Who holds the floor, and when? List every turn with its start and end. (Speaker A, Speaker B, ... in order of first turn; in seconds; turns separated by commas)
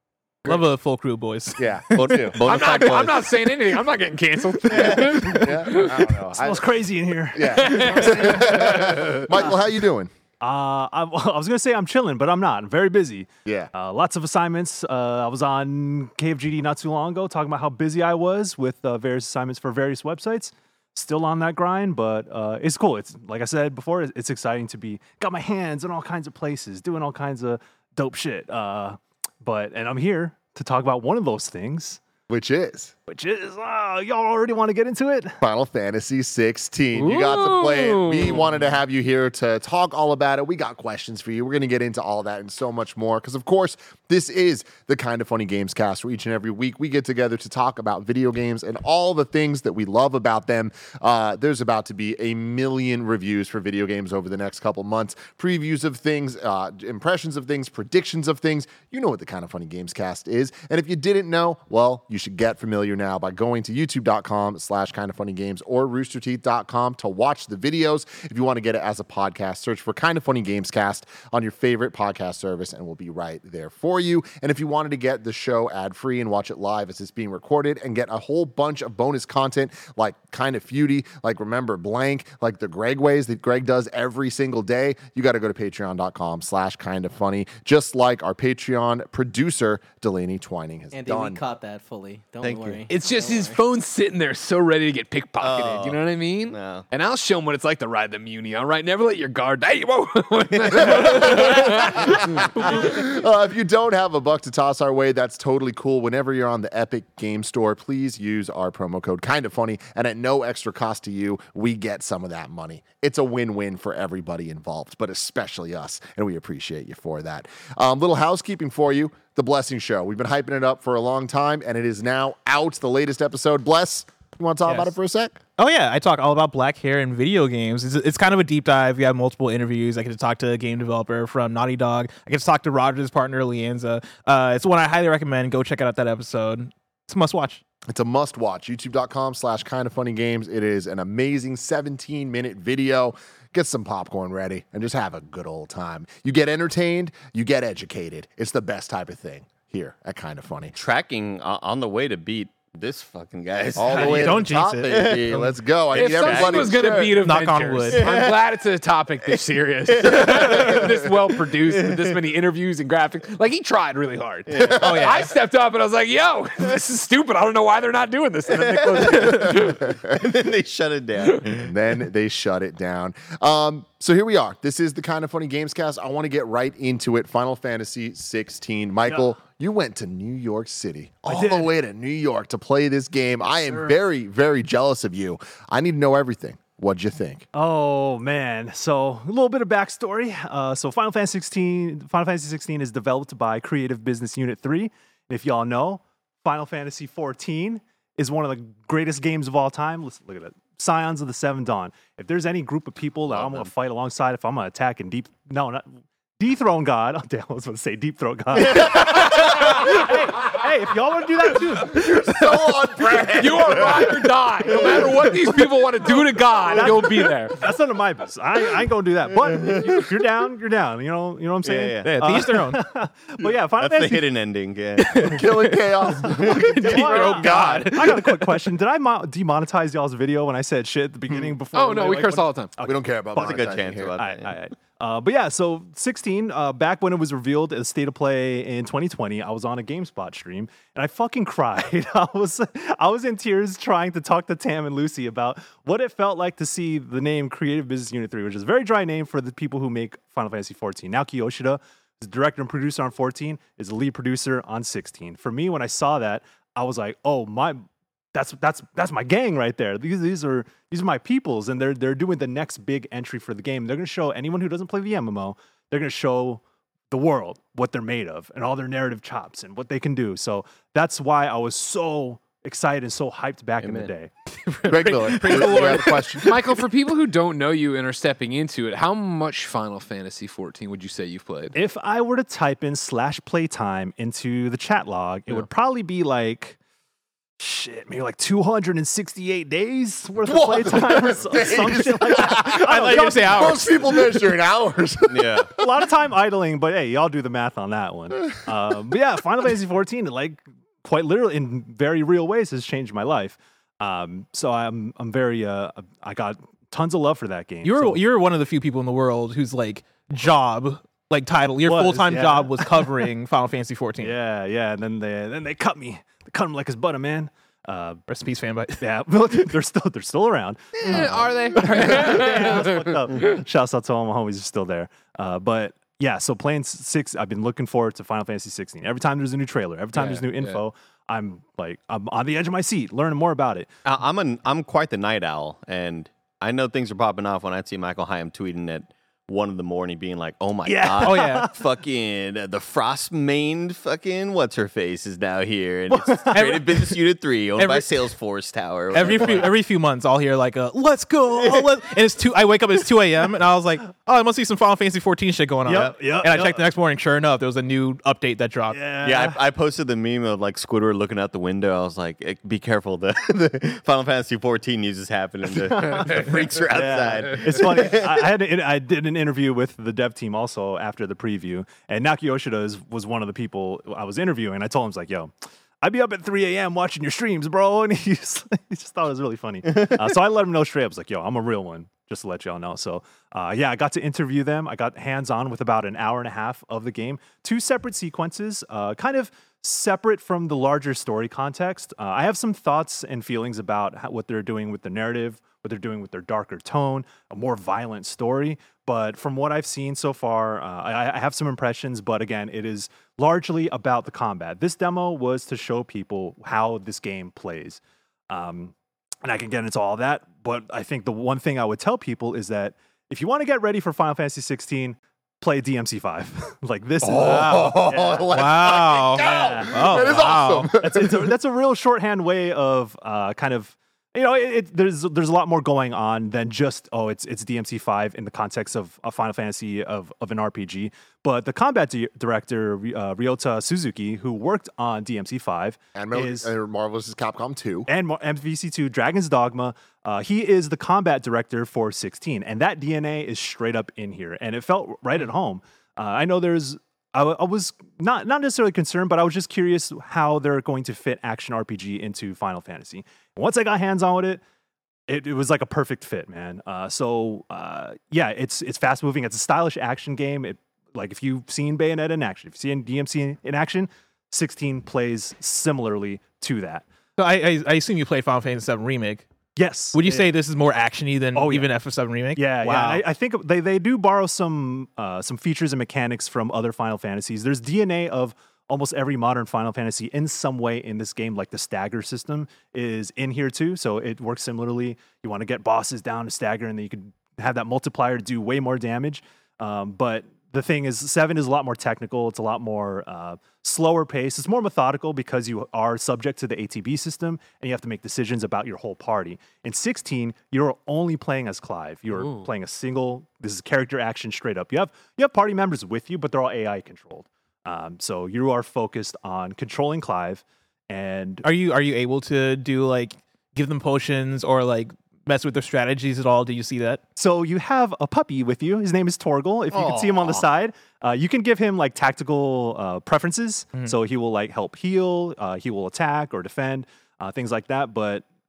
Speaker A: 0.5-2.4, Speaker B: 1.6-2.4, Speaker C: 1.9-3.5, Speaker D: 2.5-6.1, Speaker B: 4.7-6.7, Speaker E: 6.4-9.5, Speaker B: 7.3-10.1, Speaker D: 7.5-9.0, Speaker E: 10.4-32.0, Speaker B: 13.4-13.7, Speaker B: 32.3-32.9, Speaker E: 33.1-35.4, Speaker B: 35.4-91.4, Speaker D: 37.0-38.5, Speaker F: 90.9-93.6, Speaker C: 92.4-92.9, Speaker D: 92.9-103.0, Speaker C: 95.4-96.9, Speaker C: 100.5-102.5, Speaker B: 100.9-125.4, Speaker A: 124.7-124.9, Speaker A: 125.6-137.6, Speaker B: 137.9-150.8, Speaker C: 150.8-155.3, Speaker B: 153.8-157.3, Speaker A: 153.9-155.6, Speaker D: 155.9-169.9, Speaker C: 155.9-156.8, Speaker A: 157.2-158.1, Speaker C: 158.0-158.3, Speaker C: 159.9-161.2, Speaker C: 161.7-162.0, Speaker C: 164.5-164.9, Speaker B: 164.6-165.2, Speaker C: 168.7-171.7, Speaker B: 169.7-169.9, Speaker B: 171.6-187.5, Speaker E: 181.3-181.7, Speaker E: 187.5-212.4, Speaker C: 203.4-203.7, Speaker C: 208.9-209.4, Speaker B: 211.9-215.2, Speaker D: 213.3-217.6, Speaker E: 217.5-224.2, Speaker C: 221.7-222.3, Speaker A: 222.0-222.8, Speaker C: 223.8-225.3, Speaker B: 225.2-228.1, Speaker A: 225.2-225.8, Speaker E: 226.4-274.3, Speaker A: 226.9-227.7, Speaker D: 231.7-232.7, Speaker B: 232.8-234.1, Speaker C: 233.4-234.6, Speaker C: 273.8-274.1, Speaker A: 274.9-276.2, Speaker B: 274.9-276.7, Speaker D: 276.4-281.8, Speaker E: 281.7-286.8, Speaker E: 287.6-293.9, Speaker B: 290.5-295.9, Speaker A: 292.7-294.2, Speaker C: 295.3-295.7, Speaker E: 295.8-308.2, Speaker A: 307.8-314.3, Speaker E: 311.9-313.1, Speaker E: 314.2-318.2, Speaker A: 318.3-319.1, Speaker E: 319.0-333.9, Speaker D: 321.1-323.1, Speaker D: 330.2-330.8, Speaker C: 334.1-349.7, Speaker E: 340.9-341.7, Speaker A: 341.2-341.7, Speaker E: 346.1-347.0, Speaker A: 347.8-348.1, Speaker A: 349.1-359.1, Speaker C: 351.6-351.9, Speaker E: 355.9-356.8, Speaker E: 358.9-359.6, Speaker C: 359.2-368.5, Speaker E: 365.9-418.6, Speaker D: 366.1-366.5, Speaker B: 417.2-421.5, Speaker A: 418.5-420.9, Speaker E: 419.4-436.7, Speaker B: 436.1-438.1, Speaker E: 438.1-454.6, Speaker E: 455.3-467.1, Speaker A: 467.4-469.4, Speaker E: 469.8-470.5, Speaker A: 470.1-473.2, Speaker E: 471.5-471.9, Speaker E: 472.5-511.7, Speaker A: 511.6-517.2, Speaker E: 517.4-528.5